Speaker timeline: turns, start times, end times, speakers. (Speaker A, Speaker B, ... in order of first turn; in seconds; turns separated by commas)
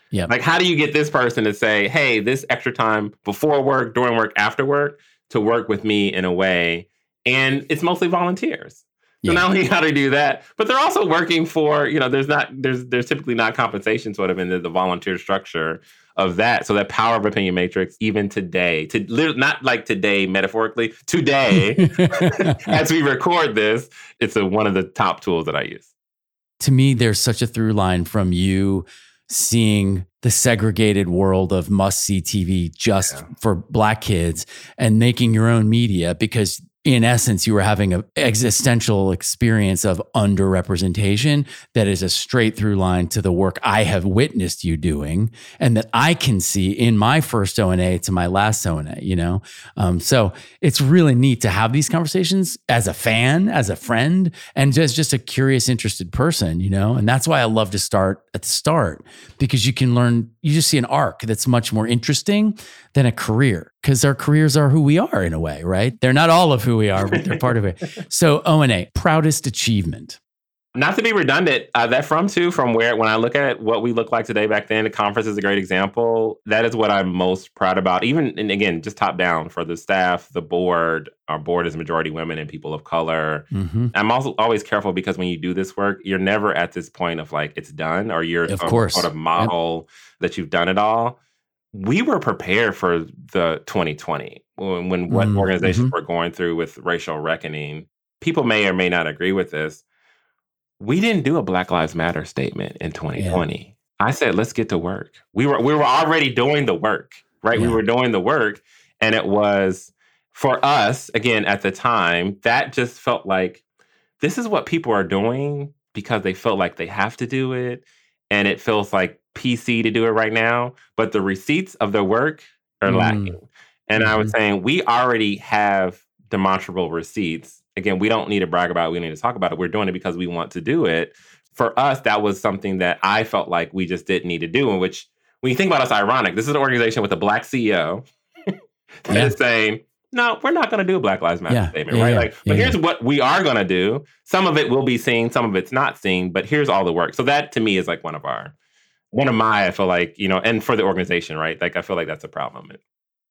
Speaker A: 0.3-25.9, Speaker B: 21.5-22.8, Speaker B: 26.6-70.2, Speaker A: 70.8-91.2, Speaker B: 83.5-83.9, Speaker B: 88.5-89.5, Speaker A: 91.7-99.8, Speaker B: 95.1-95.9, Speaker A: 100.8-113.6, Speaker B: 103.2-103.4, Speaker B: 107.5-107.8, Speaker A: 114.2-138.1, Speaker B: 122.9-123.4, Speaker B: 124.0-124.3, Speaker A: 139.1-148.5, Speaker B: 139.1-139.3, Speaker B: 141.5-142.8, Speaker A: 149.1-152.8